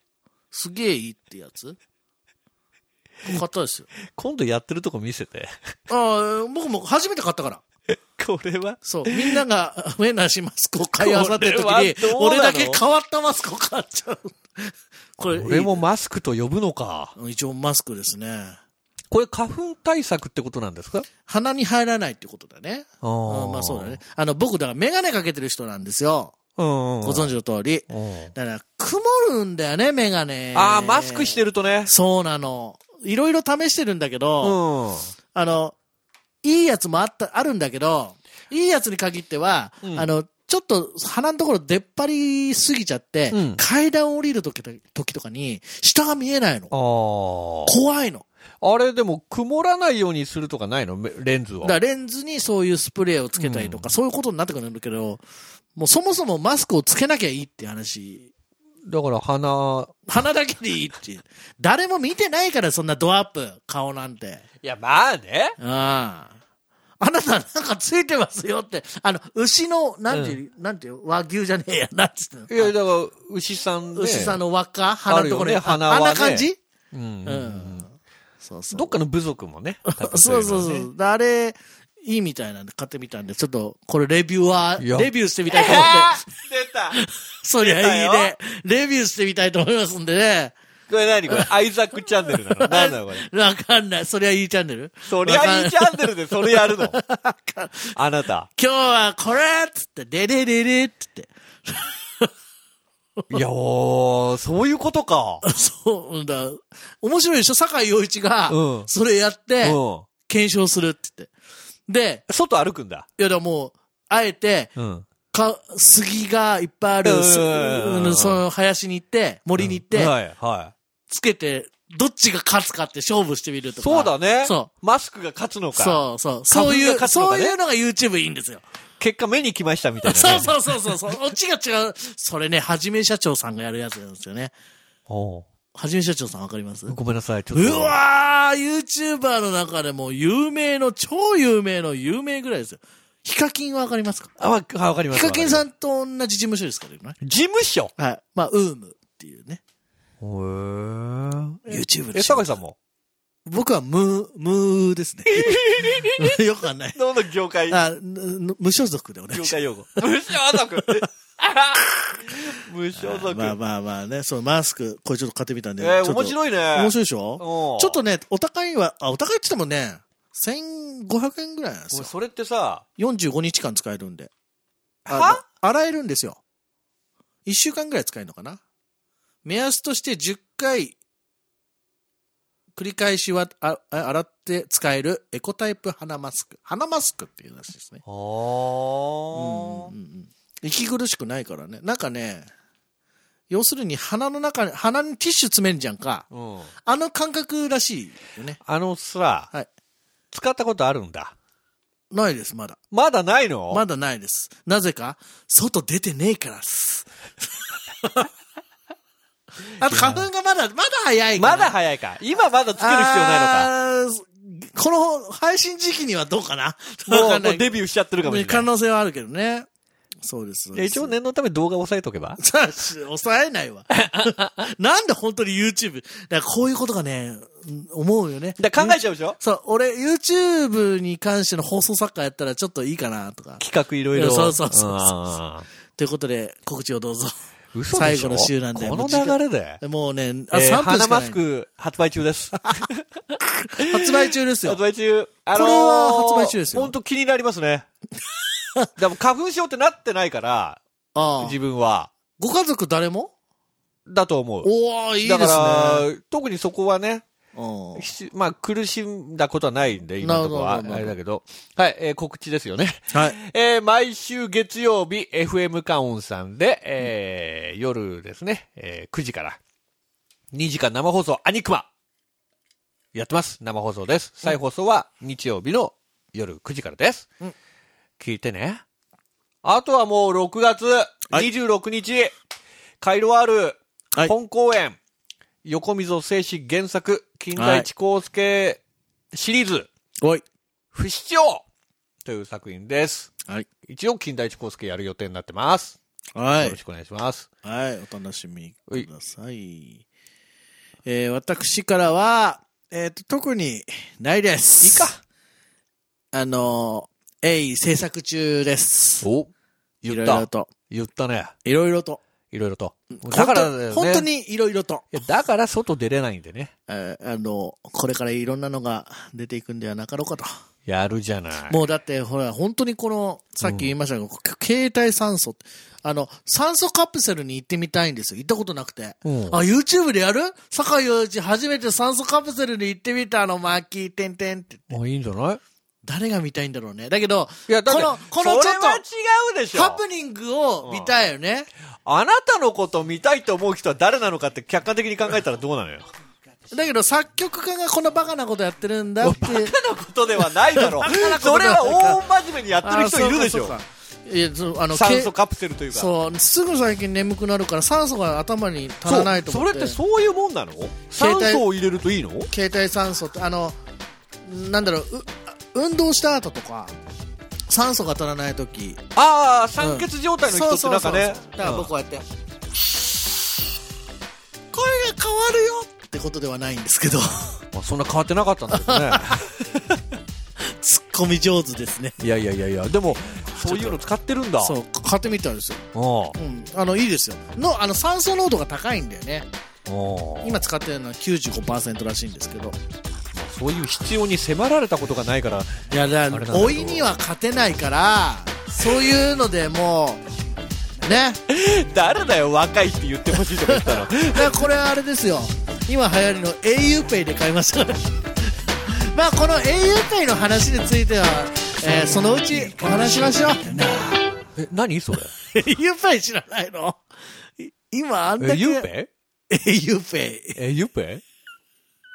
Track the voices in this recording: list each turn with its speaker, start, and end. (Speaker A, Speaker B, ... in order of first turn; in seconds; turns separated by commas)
Speaker A: 0.5-1.8, Speaker A: 3.2-3.9, Speaker B: 4.1-5.5, Speaker A: 5.9-7.6, Speaker B: 7.9-9.4, Speaker A: 8.8-15.8, Speaker B: 11.0-12.8, Speaker B: 15.3-17.1, Speaker A: 17.1-18.6, Speaker B: 19.1-21.1, Speaker A: 21.2-26.3, Speaker B: 23.0-24.0, Speaker B: 26.6-27.3, Speaker A: 27.0-34.6, Speaker B: 27.9-28.3, Speaker B: 30.5-31.9, Speaker B: 34.4-35.1, Speaker A: 35.3-35.8, Speaker A: 36.4-46.7, Speaker B: 43.3-43.6, Speaker B: 46.7-47.7, Speaker A: 47.6-48.2, Speaker B: 48.6-51.8, Speaker A: 51.6-55.2, Speaker B: 53.4-53.9, Speaker A: 55.8-58.3, Speaker B: 58.9-60.0, Speaker A: 60.1-64.4, Speaker B: 64.6-65.5, Speaker A: 65.6-66.3, Speaker A: 67.0-72.7, Speaker B: 70.1-70.4, Speaker B: 72.5-74.4, Speaker A: 73.9-76.6, Speaker B: 75.1-77.8, Speaker A: 77.2-79.0, Speaker B: 78.7-80.9, Speaker A: 79.9-86.2, Speaker B: 84.8-87.0, Speaker A: 86.9-90.5, Speaker B: 87.6-88.3, Speaker B: 90.9-93.3, Speaker A: 92.3-97.9, Speaker B: 95.1-97.0, Speaker B: 97.9-98.5, Speaker A: 98.5-102.3, Speaker B: 103.3-105.4, Speaker A: 105.4-111.3, Speaker B: 108.5-108.9, Speaker B: 109.6-110.1, Speaker A: 111.9-112.2, Speaker B: 112.3-113.0, Speaker A: 113.2-114.7, Speaker B: 114.8-115.1, Speaker A: 115.3-120.1, Speaker B: 117.0-118.4, Speaker B: 119.6-120.7, Speaker A: 121.1-124.7, Speaker B: 123.8-127.5, Speaker A: 125.7-128.6, Speaker B: 129.0-131.1, Speaker A: 130.0-134.5, Speaker B: 135.1-135.5, Speaker A: 135.7-137.0, Speaker B: 136.9-138.0, Speaker A: 137.5-144.3, Speaker B: 144.4-145.6, Speaker A: 145.1-147.2, Speaker B: 147.2-147.9, Speaker A: 148.0-149.6, Speaker B: 150.2-152.8, Speaker A: 151.7-152.5, Speaker A: 153.4-157.0, Speaker B: 155.3-156.4, Speaker B: 156.9-157.8, Speaker A: 157.7-159.6, Speaker B: 159.3-163.6, Speaker A: 160.5-161.0, Speaker A: 162.0-162.3, Speaker A: 162.9-172.1, Speaker B: 165.8-168.0, Speaker B: 171.9-172.8, Speaker A: 173.0-174.3, Speaker B: 175.0-175.4, Speaker A: 175.1-176.4, Speaker A: 177.4-178.6, Speaker A: 179.4-180.9, Speaker A: 182.8-188.0, Speaker B: 188.0-189.9, Speaker A: 189.3-192.5, Speaker A: 193.5-196.3, Speaker B: 196.3-196.7, Speaker A: 196.8-198.6, Speaker B: 198.6-199.5, Speaker B: 200.3-201.3, Speaker A: 202.1-202.8, Speaker B: 202.9-203.8, Speaker A: 203.7-207.1, Speaker A: 208.0-208.3, Speaker A: 209.8-211.7, Speaker B: 209.8-210.3, Speaker B: 211.4-213.7, Speaker A: 212.8-219.7, Speaker B: 217.1-218.7, Speaker A: 220.2-221.1, Speaker B: 220.7-222.4, Speaker A: 222.4-233.6, Speaker B: 224.1-224.4, Speaker B: 228.6-229.4, Speaker B: 233.6-235.7, Speaker A: 234.1-235.2, Speaker A: 235.9-237.3, Speaker B: 237.7-239.8, Speaker A: 237.9-241.4, Speaker B: 240.5-243.0, Speaker A: 243.4-244.8, Speaker B: 244.6-247.8, Speaker A: 245.5-246.9, Speaker B: 249.0-250.8, Speaker A: 251.1-251.6, Speaker B: 251.4-252.1, Speaker A: 252.4-253.3, Speaker B: 254.1-254.7, Speaker A: 254.6-256.1, Speaker B: 255.2-257.2, Speaker A: 257.5-258.1, Speaker B: 257.9-269.6, Speaker A: 260.2-261.1, Speaker B: 270.5-271.9, Speaker B: 273.1-277.3, Speaker B: 278.2-278.8, Speaker B: 279.6-282.3, Speaker B: 283.0-285.0, Speaker B: 285.6-288.8, Speaker A: 287.5-287.9, Speaker B: 289.3-289.9, Speaker B: 290.9-291.6, Speaker B: 292.2-293.3, Speaker B: 293.9-295.9, Speaker A: 296.4-296.8, Speaker B: 296.6-297.5, Speaker A: 297.6-300.0, Speaker A: 301.1-305.1, Speaker B: 304.8-305.2, Speaker A: 306.3-309.3, Speaker B: 309.2-309.5, Speaker B: 310.0-311.5, Speaker A: 310.0-310.7, Speaker A: 311.6-312.2, Speaker B: 312.5-314.3, Speaker A: 313.1-315.2, Speaker B: 315.1-316.7, Speaker A: 316.9-320.5, Speaker B: 320.9-321.8, Speaker A: 321.7-335.0, Speaker B: 323.6-323.9, Speaker B: 329.2-329.6, Speaker B: 334.9-335.6, Speaker A: 336.0-339.0, Speaker B: 337.7-340.0, Speaker A: 339.7-341.7, Speaker B: 340.8-341.1, Speaker B: 342.1-346.1, Speaker A: 346.7-349.7, Speaker B: 349.2-353.8, Speaker A: 350.7-352.2, Speaker A: 352.8-355.3, Speaker B: 354.9-356.1, Speaker A: 355.9-360.0, Speaker B: 359.0-362.5, Speaker A: 361.1-361.6, Speaker A: 362.5-363.8, Speaker A: 364.4-366.9, Speaker A: 367.7-369.0, Speaker B: 369.1-371.9, Speaker A: 369.8-372.2, Speaker A: 374.7-377.6, Speaker B: 377.7-379.5, Speaker A: 378.7-379.4, Speaker A: 380.6-382.2, Speaker B: 382.2-384.7, Speaker A: 383.6-384.1, Speaker A: 384.6-385.8, Speaker B: 385.9-386.4, Speaker A: 386.3-389.5, Speaker B: 389.9-390.6, Speaker A: 390.4-392.8, Speaker B: 393.3-397.1, Speaker A: 395.9-400.2, Speaker A: 401.0-401.4, Speaker B: 401.5-404.6, Speaker A: 403.3-414.2, Speaker B: 414.6-415.3, Speaker A: 415.4-417.0, Speaker A: 417.6-418.9, Speaker B: 418.4-419.1, Speaker A: 419.5-420.6, Speaker B: 420.6-421.2